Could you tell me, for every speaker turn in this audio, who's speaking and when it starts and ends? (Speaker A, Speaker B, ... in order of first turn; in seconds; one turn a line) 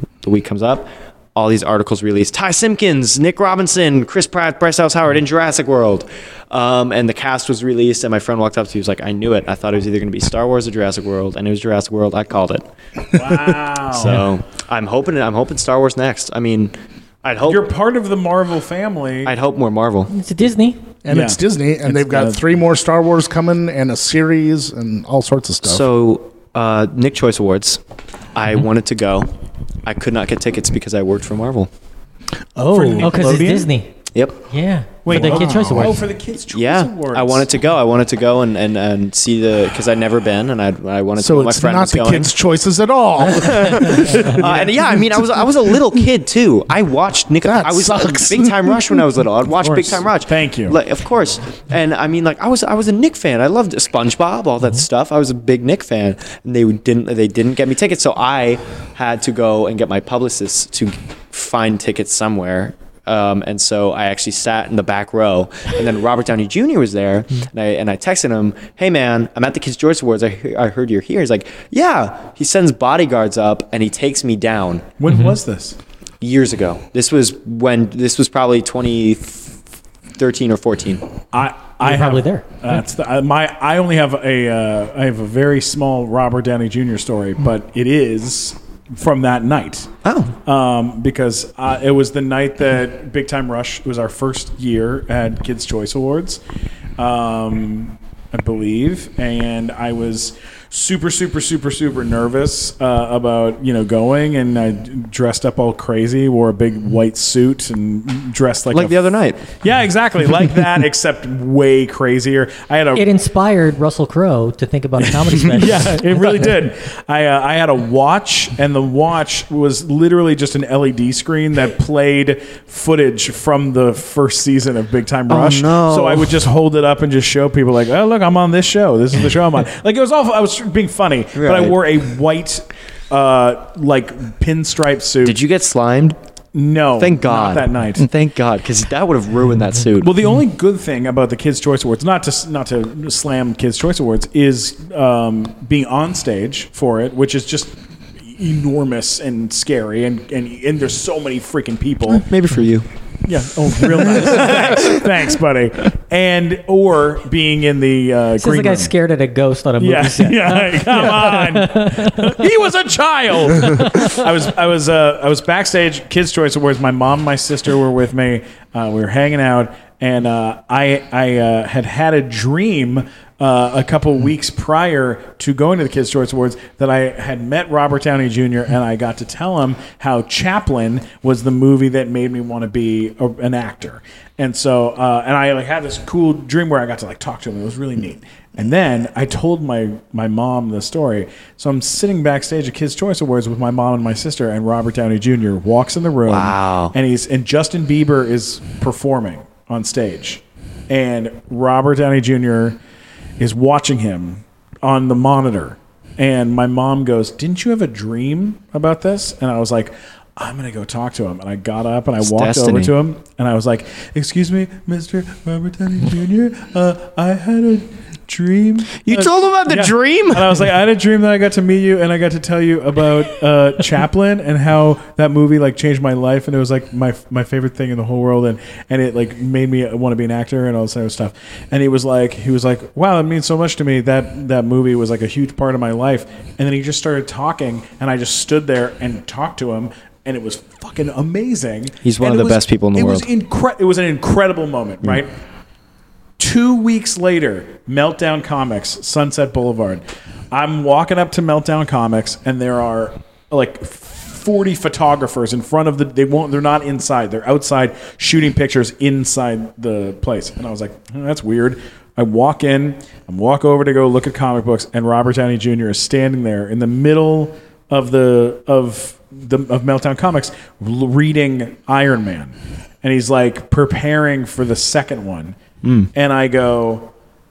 Speaker A: 0.2-17.7
Speaker B: 13.1-14.2
Speaker B: 17.4-19.3
Speaker A: 19.2-20.1
Speaker C: 20.1-20.8
Speaker D: 21.1-25.9
Speaker B: 21.1-22.5
Speaker A: 25.6-27.8
Speaker A: 28.3-29.3
Speaker A: 29.8-31.7
Speaker D: 32.6-33.6
Speaker B: 32.7-33.7
Speaker C: 33.0-33.9
Speaker A: 34.1-34.4
Speaker C: 34.5-36.0
Speaker B: 35.0-37.5
Speaker D: 35.1-36.0
Speaker A: 36.5-42.3
Speaker D: 41.2-46.0
Speaker A: 43.2-74.9
Speaker B: 44.4-44.7
Speaker D: 47.4-49.0
Speaker B: 49.6-50.8
Speaker B: 75.0-75.8
Speaker A: 76.2-79.5
Speaker A: 80.2-81.1
Speaker B: 81.3-89.9
Speaker C: 81.8-82.5
Speaker A: 90.0-90.3
Speaker B: 90.5-96.4
Speaker B: 97.0-113.1
Speaker A: 108.7-109.4
Speaker C: 113.0-116.1
Speaker B: 115.4-135.4
Speaker A: 125.3-126.3
Speaker A: 131.4-131.8
Speaker A: 135.2-136.2
Speaker B: 136.6-138.1
Speaker A: 137.0-140.1
Speaker B: 140.0-147.8
Speaker B: 148.3-152.2
Speaker A: 152.1-152.9
Speaker B: 153.3-158.9
Speaker A: 153.8-155.0
Speaker C: 158.4-162.4
Speaker B: 159.8-202.8
Speaker C: 163.6-164.2
Speaker A: 196.3-196.9
Speaker B: 203.4-245.3
Speaker A: 212.2-212.9
Speaker A: 219.0-220.6
Speaker A: 242.0-243.3
Speaker B: 246.4-275.6
Speaker A: 275.8-276.1
Speaker B: 276.1-277.1